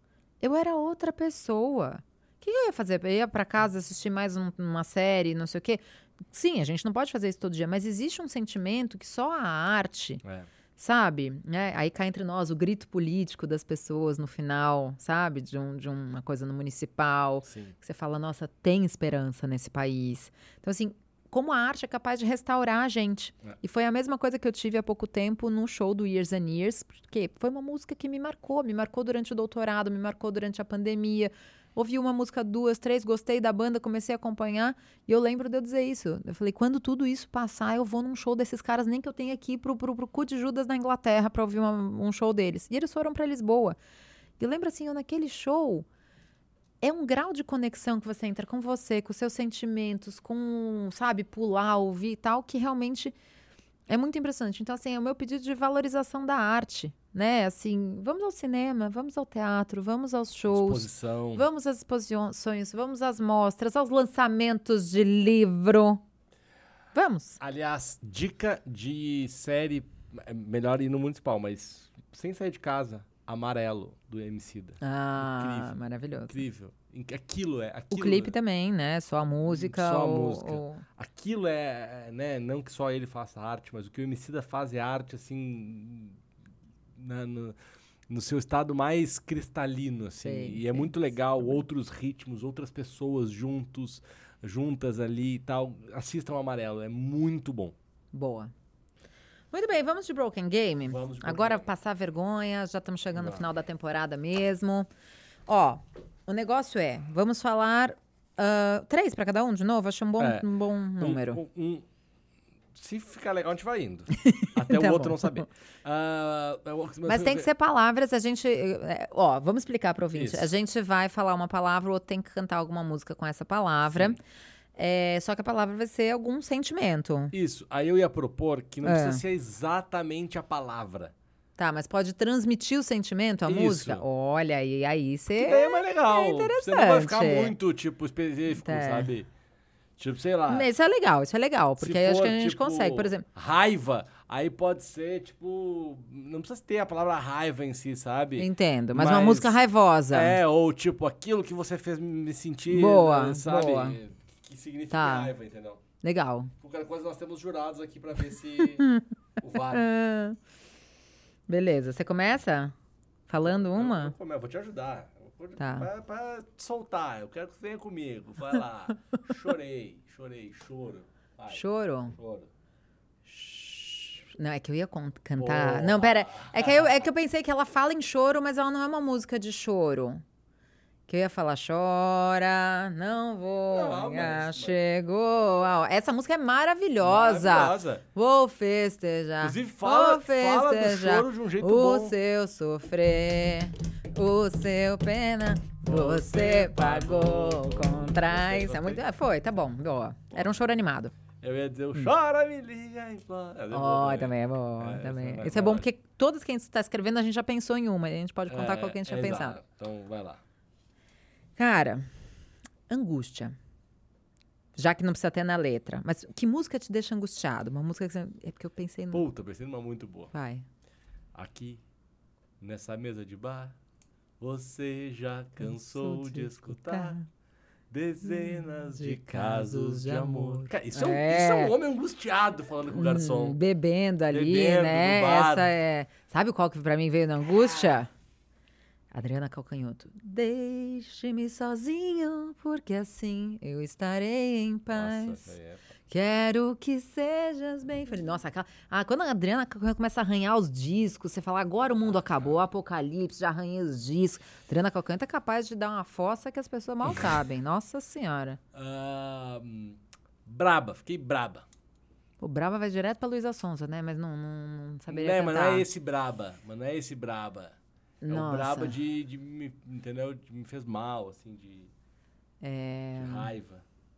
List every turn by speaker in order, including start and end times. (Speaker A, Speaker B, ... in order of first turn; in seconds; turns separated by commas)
Speaker A: 0.4-10.2, Speaker A: 10.8-43.8, Speaker B: 17.4-17.7, Speaker A: 44.4-45.9, Speaker A: 46.8-53.1, Speaker A: 53.9-66.0, Speaker B: 60.5-61.5, Speaker A: 66.9-67.4, Speaker B: 67.4-78.3, Speaker A: 74.8-76.4, Speaker A: 77.9-80.8, Speaker B: 79.5-86.2, Speaker B: 86.9-87.5, Speaker B: 88.1-97.7, Speaker A: 90.2-91.6, Speaker A: 98.1-98.5, Speaker A: 99.5-104.9, Speaker B: 100.8-101.7, Speaker B: 103.2-103.4, Speaker A: 105.5-111.4, Speaker B: 110.2-111.8, Speaker B: 112.7-117.5, Speaker A: 114.1-115.5, Speaker A: 117.0-124.2, Speaker B: 120.1-120.5, Speaker B: 123.8-124.2, Speaker A: 124.8-127.3, Speaker B: 127.3-131.1, Speaker A: 128.8-129.2, Speaker A: 131.6-137.5, Speaker B: 133.4-134.0, Speaker B: 135.4-139.3, Speaker A: 138.5-139.1, Speaker B: 140.0-140.7, Speaker A: 140.5-143.2, Speaker B: 141.8-155.8, Speaker A: 148.4-150.4, Speaker A: 152.7-154.0, Speaker A: 154.9-155.3, Speaker A: 156.0-156.5, Speaker B: 156.6-158.9, Speaker A: 158.8-159.0, Speaker B: 159.4-159.8, Speaker A: 159.7-160.4, Speaker A: 161.5-162.7, Speaker A: 163.3-164.1, Speaker B: 163.4-171.6, Speaker A: 165.6-165.9, Speaker A: 171.5-172.2, Speaker B: 172.1-172.5, Speaker A: 173.3-180.2, Speaker B: 175.4-176.9, Speaker A: 181.1-201.1, Speaker B: 183.7-184.8, Speaker B: 187.0-188.0, Speaker B: 189.4-192.2, Speaker B: 195.8-199.0, Speaker B: 201.4-205.8, Speaker A: 203.7-209.6, Speaker B: 208.5-210.4, Speaker A: 211.6-212.1, Speaker A: 212.9-213.6, Speaker A: 214.8-219.2, Speaker B: 219.1-220.3, Speaker A: 220.3-220.6, Speaker B: 221.3-221.8, Speaker B: 222.6-223.8, Speaker B: 224.4-227.2, Speaker A: 225.6-227.2, Speaker B: 227.9-233.6, Speaker A: 228.2-231.7, Speaker A: 232.9-238.1, Speaker B: 234.3-235.7, Speaker A: 239.1-245.5, Speaker B: 244.9-245.8, Speaker A: 246.1-258.6, Speaker B: 252.0-252.5, Speaker B: 258.7-261.6, Speaker A: 262.4-265.9, Speaker B: 265.1-267.8, Speaker A: 268.2-269.0, Speaker B: 268.3-271.9, Speaker A: 272.6-273.5, Speaker B: 273.2-273.8